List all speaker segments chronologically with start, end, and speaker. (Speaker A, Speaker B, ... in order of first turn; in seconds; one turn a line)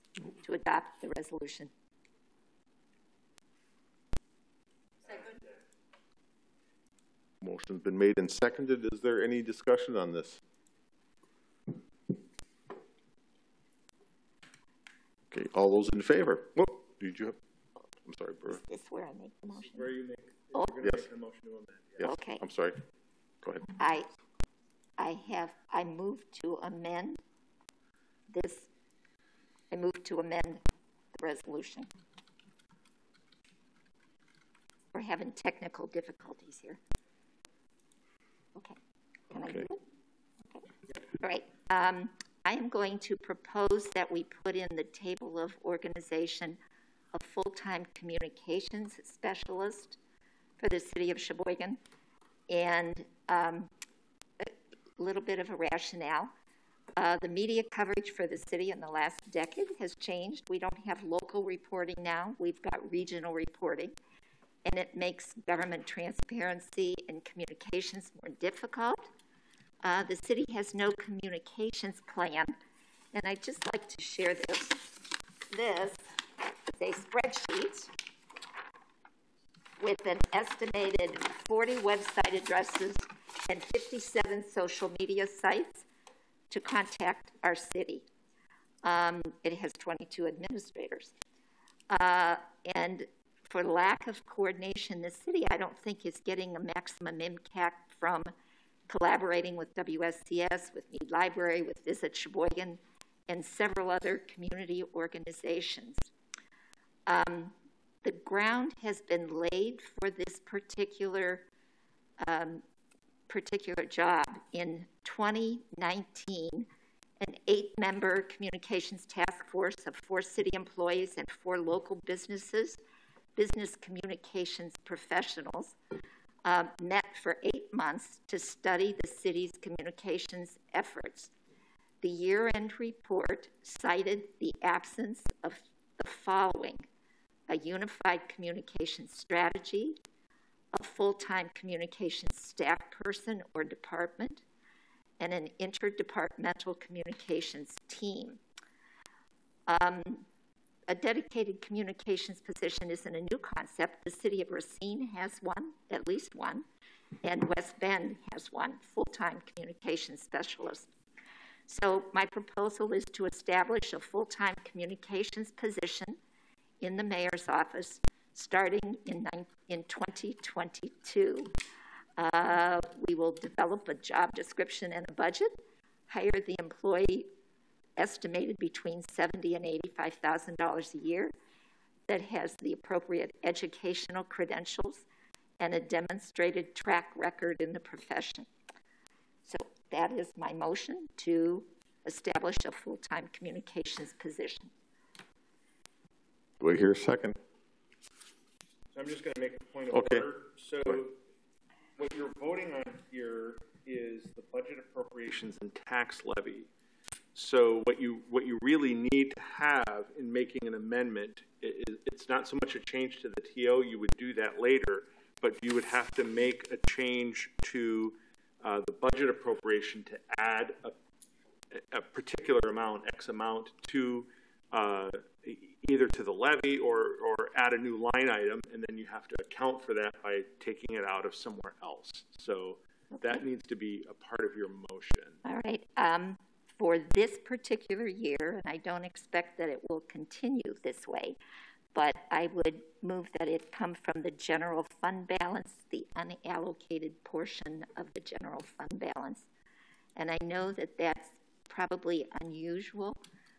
Speaker A: 0.4-1.7
Speaker B: 7.4-10.4
Speaker B: 15.3-17.4
Speaker B: 18.0-18.6
Speaker A: 18.5-19.9
Speaker C: 19.5-22.0
Speaker B: 20.8-21.1
Speaker A: 22.0-22.4
Speaker B: 22.0-22.8
Speaker B: 23.4-23.7
Speaker A: 23.8-24.1
Speaker A: 25.0-27.2
Speaker A: 28.3-28.7
Speaker A: 29.7-30.6
Speaker A: 31.1-31.9
Speaker A: 34.9-36.8
Speaker A: 39.3-39.8
Speaker B: 39.4-39.6
Speaker A: 41.2-46.6
Speaker A: 47.1-50.0
Speaker A: 50.6-51.8
Speaker A: 52.5-53.7
Speaker A: 54.4-56.3
Speaker A: 57.0-63.9
Speaker A: 64.6-69.1
Speaker A: 69.8-72.5
Speaker A: 73.1-76.0
Speaker A: 76.7-77.9
Speaker A: 79.8-85.8
Speaker A: 86.5-88.0
Speaker A: 88.8-91.1
Speaker A: 91.9-98.3
Speaker A: 98.9-106.1
Speaker A: 107.1-111.5
Speaker A: 112.2-112.6
Speaker A: 113.3-116.7
Speaker A: 117.2-122.8
Speaker A: 123.3-125.8
Speaker A: 126.4-131.3
Speaker A: 132.0-136.8
Speaker A: 137.5-140.0
Speaker A: 140.7-144.4
Speaker A: 145.2-148.4
Speaker A: 149.7-150.2
Speaker A: 150.9-156.7
Speaker A: 157.2-160.9
Speaker A: 161.7-166.2
Speaker A: 166.8-171.5
Speaker A: 172.2-175.6
Speaker A: 176.1-177.3
Speaker A: 178.0-181.3
Speaker A: 182.1-185.0
Speaker A: 185.6-188.5
Speaker A: 189.4-194.7
Speaker B: 196.6-197.4
Speaker C: 198.9-201.2
Speaker B: 199.9-200.3
Speaker C: 202.0-206.7
Speaker C: 207.3-220.9
Speaker C: 221.7-235.4
Speaker A: 233.1-233.4
Speaker A: 235.4-241.4
Speaker A: 241.9-249.5
Speaker A: 250.2-253.2